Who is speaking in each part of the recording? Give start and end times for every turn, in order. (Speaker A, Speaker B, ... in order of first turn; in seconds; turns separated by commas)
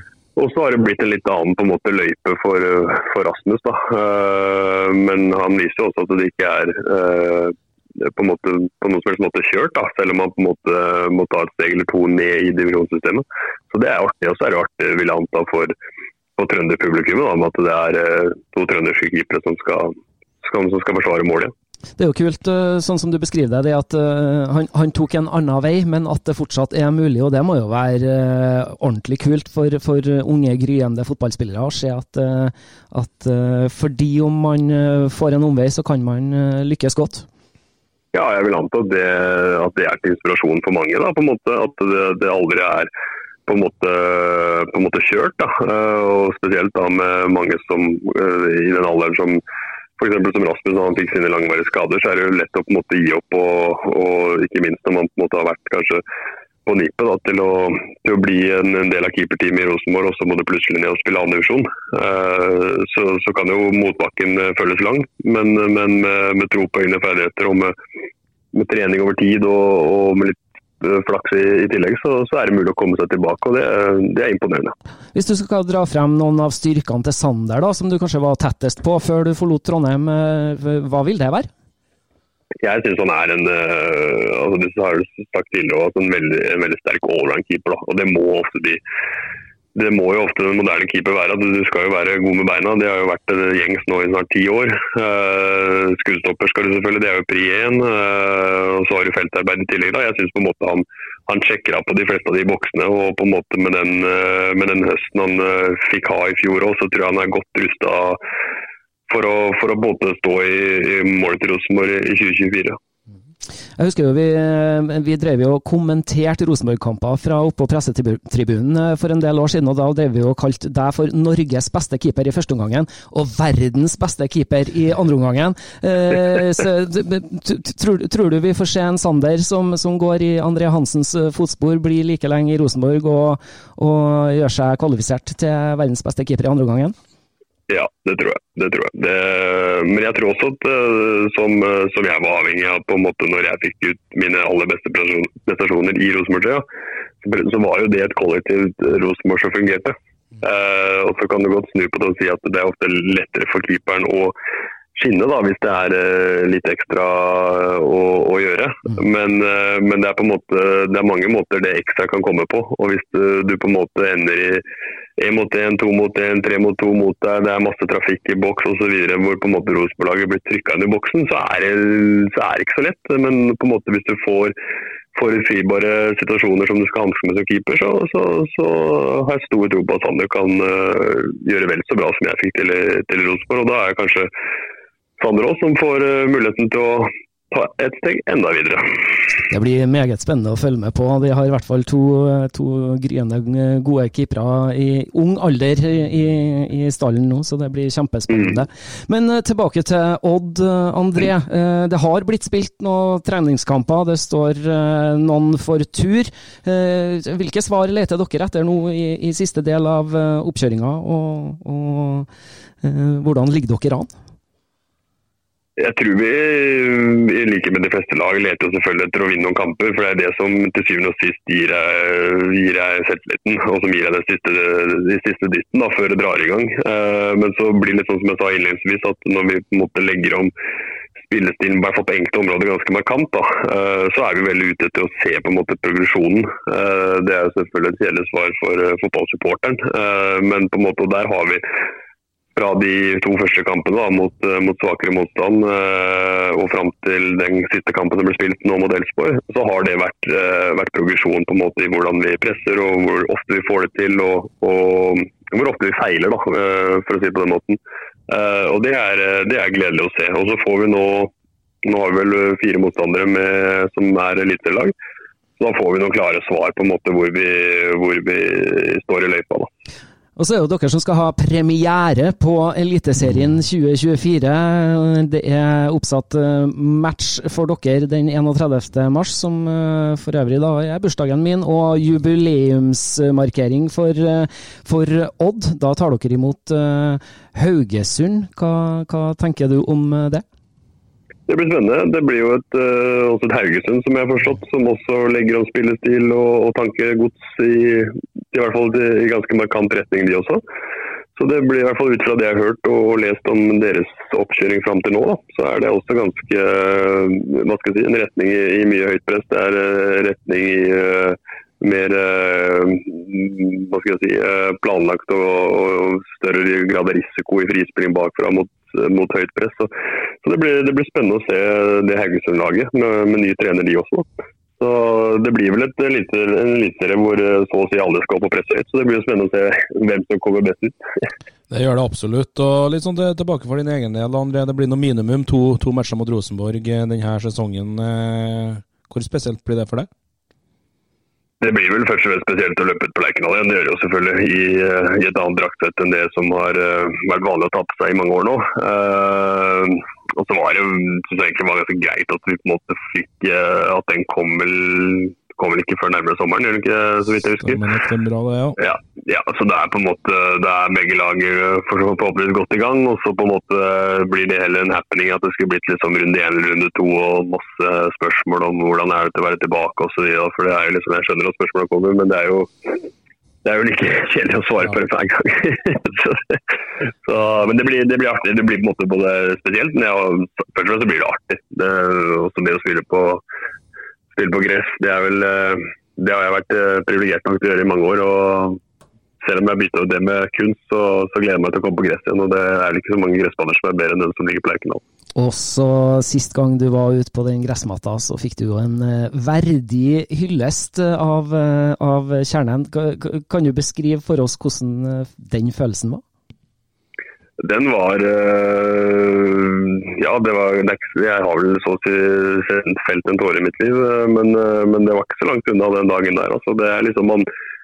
Speaker A: 0.4-15.7, Speaker A: 16.4-21.5, Speaker B: 22.0-37.3, Speaker A: 38.1-42.9, Speaker A: 43.5-49.4, Speaker A: 50.0-56.0, Speaker A: 56.6-67.8, Speaker A: 68.5-74.8, Speaker B: 75.1-81.5, Speaker A: 82.6-88.8, Speaker A: 89.8-108.2, Speaker A: 109.1-112.8, Speaker B: 113.8-136.9, Speaker A: 137.7-146.6, Speaker A: 147.2-154.4, Speaker A: 154.9-164.6, Speaker A: 165.2-174.5, Speaker A: 175.1-184.3, Speaker A: 185.2-189.0, Speaker B: 189.5-212.3, Speaker B: 212.8-214.1, Speaker A: 215.8-230.5, Speaker A: 231.2-241.6, Speaker A: 242.6-261.3, Speaker A: 261.8-264.9, Speaker A: 265.6-269.7, Speaker B: 270.4-290.4, Speaker A: 291.5-300.6, Speaker A: 301.4-319.9, Speaker A: 320.4-324.3, Speaker A: 324.8-331.0, Speaker C: 331.7-340.1, Speaker A: 341.6-357.8, Speaker C: 357.6-358.8, Speaker A: 358.8-373.1, Speaker A: 373.6-376.6, Speaker A: 377.2-383.4, Speaker A: 384.3-388.8, Speaker A: 389.4-395.0, Speaker B: 395.4-406.2, Speaker A: 407.6-417.5